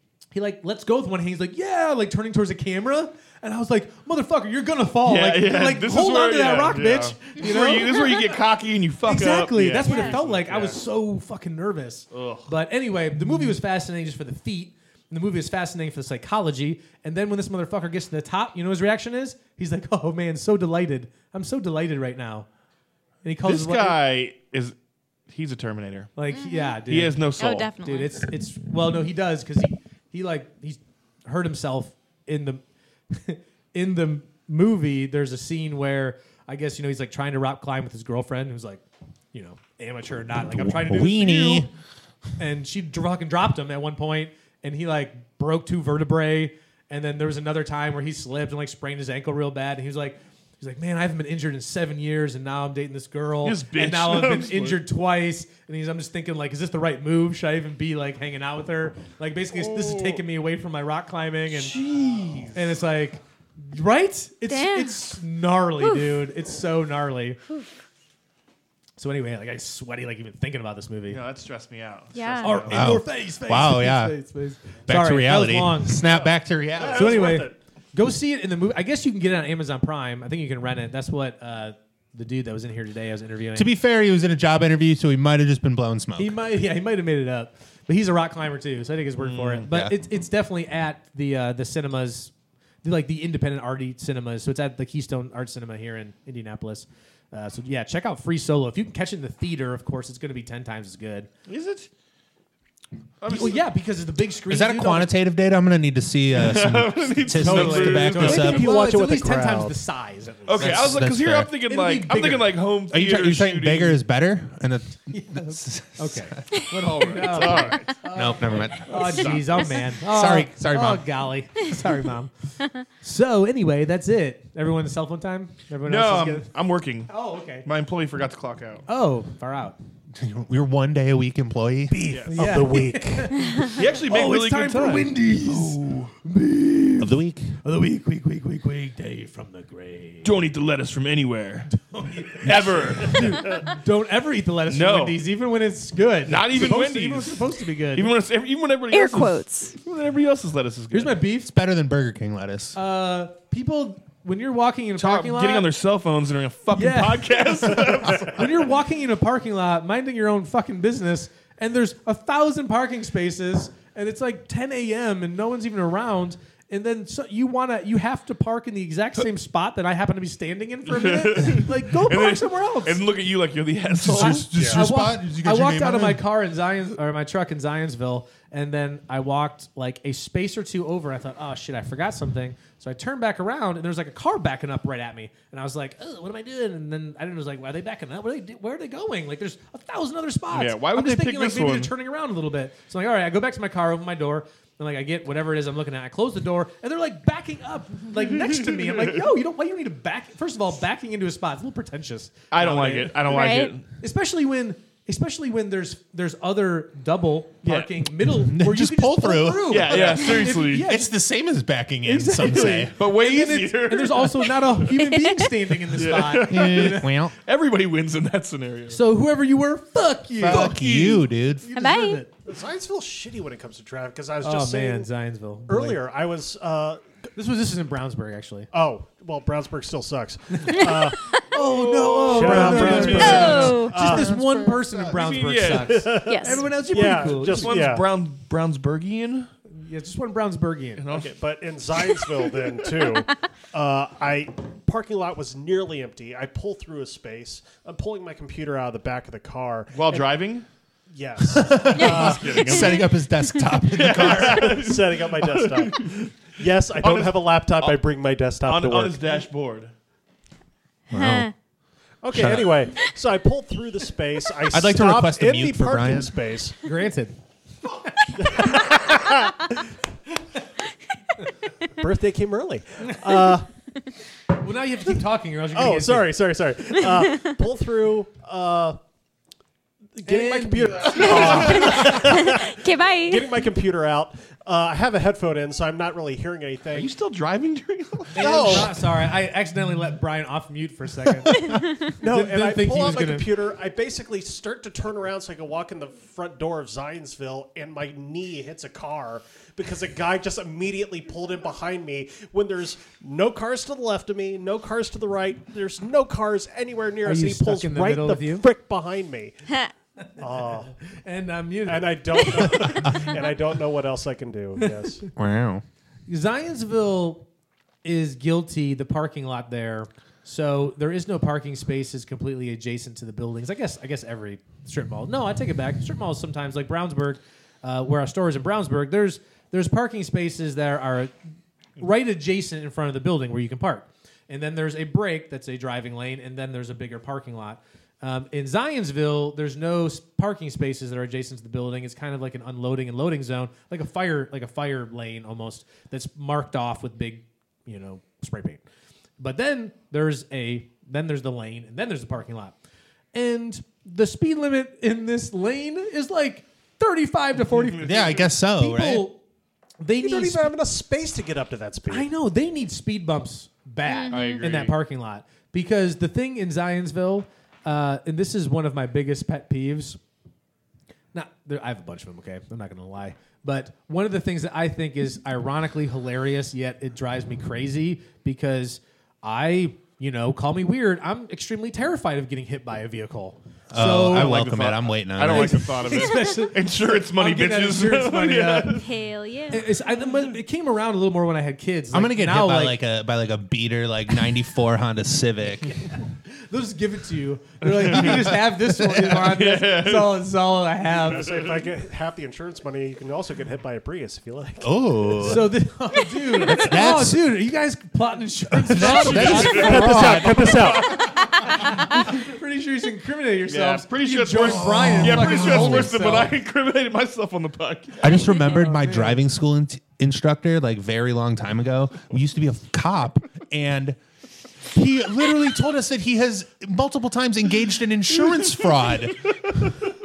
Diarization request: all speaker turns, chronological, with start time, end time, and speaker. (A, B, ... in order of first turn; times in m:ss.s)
0:00.3-0:08.4 A
0:05.0-0:10.8 B
0:09.0-0:22.5 A
0:09.8-0:10.2 C
0:12.1-0:12.5 B
0:23.2-0:24.0 A
0:23.4-0:24.8 B
0:25.3-0:26.1 B
0:26.2-0:41.7 A
0:26.3-0:26.8 C
0:26.9-0:27.7 B
0:27.4-0:28.2 C
0:40.5-0:41.7 D
0:42.4-1:01.8 A
0:53.4-0:54.8 B
0:59.5-1:00.2 B
1:01.5-1:02.8 B
1:02.5-1:07.4 A
1:04.5-1:05.0 C
1:05.8-1:06.2 C
1:09.0-1:11.2 A
1:11.1-1:13.0 B
1:12.1-1:12.7 C
1:12.4-1:16.1 A
1:12.7-1:14.2 D
1:14.9-1:17.1 D
1:16.0-1:17.3 B
1:16.8-1:17.6 E
1:16.9-1:23.7 A
1:23.6-1:26.4 D
1:26.2-1:32.3 A
1:29.2-1:29.7 B
1:32.8-1:41.3 A
1:41.5-1:41.9 B
1:43.2-1:43.6 B
1:43.3-1:45.1 A
1:44.5-1:48.7 D
1:46.3-1:48.6 B
1:47.4-1:51.0 A
1:48.2-1:49.8 E
1:50.5-1:54.0 B
1:50.6-1:51.5 D
1:51.7-1:52.5 A
1:52.9-1:56.4 D
1:55.1-2:06.5 A
1:56.7-1:57.9 B
1:58.1-1:59.4 D
1:58.9-1:59.8 B
2:00.0-2:01.0 D
2:05.8-2:07.1 B
2:07.1-2:07.7 A
2:07.6-2:08.9 B
2:08.9-2:09.8 A
2:10.2-2:12.2 D
2:11.9-2:13.4 E
2:12.1-2:12.6 B
2:12.3-2:20.3 A
2:13.6-2:16.1 B
2:17.0-2:17.6 D
2:20.2-2:21.7 B
2:21.7-2:28.1 A
2:22.4-2:23.6 B
2:24.7-2:25.2 B
2:26.3-2:31.2 B
2:28.9-2:29.8 C
2:30.9-2:31.5 A
2:31.4-2:32.8 D
2:32.7-2:35.7 A
2:35.0-2:38.7 B
2:36.7-2:53.0 A
2:50.9-2:54.5 B
2:53.9-2:56.2 D
2:54.1-3:23.3 A
2:54.5-2:54.9 E
3:10.5-3:11.9 B
3:18.7-3:19.0 B
3:22.5-3:23.9 B
3:23.3-3:23.8 C
3:24.0-3:31.1 A
3:27.6-3:27.9 B
3:28.2-3:30.1 D
3:29.7-3:30.9 B
3:30.7-3:32.9 D
3:32.0-3:37.1 A
3:32.4-3:34.9 B
3:35.0-3:35.5 C
3:35.9-3:39.0 B
3:36.5-3:37.4 D
3:38.9-3:41.0 A
3:40.4-3:41.7 D
3:40.4-3:41.3 B
3:41.6-3:42.3 A
3:41.8-3:42.2 C
3:42.4-3:45.1 E
3:44.4-3:46.0 A
3:45.7-3:47.0 E
3:47.4-3:48.7 A
3:48.7-3:51.2 E
3:50.7-3:51.4 C
3:51.4-3:58.0 A
3:51.5-3:53.8 B
3:52.2-3:54.3 E
3:52.6-3:55.0 D
3:53.2-3:53.9 C
3:55.0-3:56.2 B
3:55.7-3:58.1 E
3:56.3-3:56.7 C
3:56.9-3:59.5 B
3:59.7-4:01.0 A
4:01.0-4:01.4 B
4:01.1-4:10.1 E
4:09.9-4:10.7 B
4:11.1-4:12.9 E
4:11.4-4:14.8 D
4:12.0-4:13.0 B
4:12.0-4:13.7 C
4:13.9-4:16.3 B
4:14.0-4:19.4 E
4:16.9-4:18.0 B
4:18.6-4:19.9 B
4:21.1-4:21.5 D
4:21.1-4:21.5 C
4:22.2-4:26.8 E
4:22.3-4:22.9 D
4:24.7-4:26.4 D
4:26.8-4:27.4 A
4:28.4-4:29.8 E
4:31.9-4:33.7 E
4:33.0-4:33.6 A
4:34.5-4:36.3 A
4:35.7-4:39.0 E
4:40.2-4:47.1 E
4:40.3-4:42.0 A
4:41.2-4:42.0 B
4:41.4-4:43.5 C
4:46.9-4:49.0 B
4:48.3-4:53.5 A
4:48.4-4:48.9 D
4:48.5-4:48.8 E
4:51.6-4:51.9 C
4:52.1-5:09.6 E
5:07.2-5:08.7 A
5:10.4-5:11.0 E
5:11.0-5:13.0 A
5:11.8-5:15.2 E
5:14.8-5:15.1 A
5:15.4-5:15.8 D
5:16.3-5:17.4 A
5:18.0-5:31.3 A
5:32.0-5:48.8 A
5:49.4-5:52.8 A
5:53.3-5:59.4 A
5:57.6-5:58.5 B
5:58.0-5:59.3 D
6:00.0-6:00.7 A
6:00.2-6:02.3 E
6:02.1-6:10.2 A
6:04.1-6:04.6 C
6:04.3-6:05.0 B
6:11.3-6:24.6 A
6:23.9-6:25.9 D
6:24.3-6:29.1 B
6:25.5-6:29.0 A
6:26.1-6:26.5 C
6:29.0-6:29.9 C
6:29.7-6:33.0 A
6:32.1-6:36.0 D
6:36.0-6:41.6 A
6:37.9-6:38.5 B
6:39.1-6:40.4 B
6:41.2-6:45.6 E
6:44.8-6:45.7 D
6:45.4-6:50.5 A
6:46.6-6:47.5 D
6:48.8-6:51.1 D
6:49.0-6:51.2 B
6:49.4-6:51.3 E
6:52.0-6:56.5 A
6:53.7-6:58.6 B
6:54.6-6:56.1 D
6:58.2-7:04.2 D
6:58.7-6:59.4 A
7:04.9-7:09.9 D